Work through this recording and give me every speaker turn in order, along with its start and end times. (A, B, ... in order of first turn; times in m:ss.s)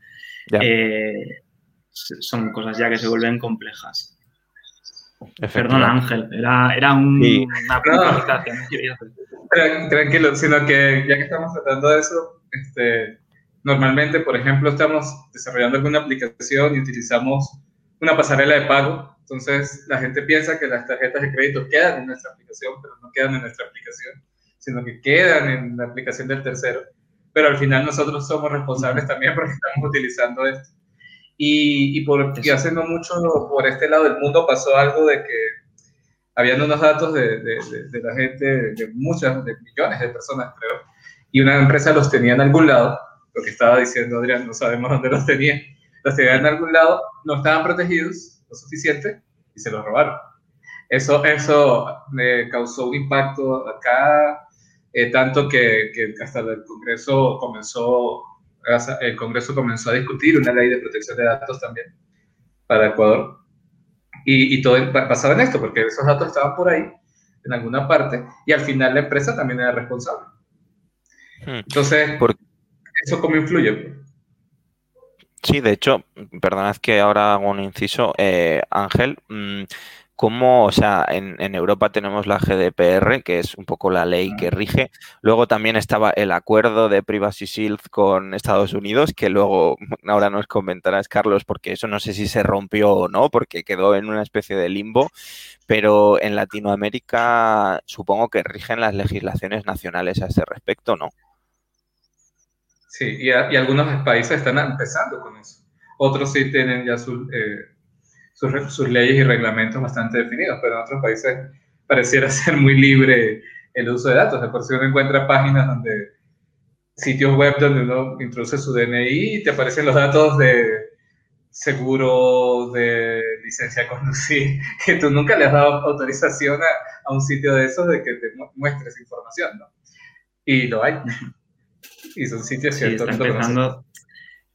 0:00.6-0:01.4 A
0:01.9-0:04.1 A
0:05.4-0:05.9 B
0:05.5-0:09.2 A
0:07.2-0:07.5 B
0:07.8-0:08.2 C
0:09.5-0:30.7 C
0:31.4-0:35.5 C
0:32.4-0:32.6 A
0:36.4-0:50.2 C
0:50.9-1:01.9 C
1:02.7-1:03.4 C
1:04.2-1:10.3 C
1:11.7-1:12.3 C
1:13.0-1:14.0 C
1:15.4-1:35.1 B
1:35.7-1:41.1 B
1:42.9-1:47.7 C
1:48.4-1:56.1 C
1:57.0-2:00.9 C
2:01.5-2:09.7 C
2:10.4-2:11.2 C
2:12.1-2:13.7 C
2:12.8-2:13.8 A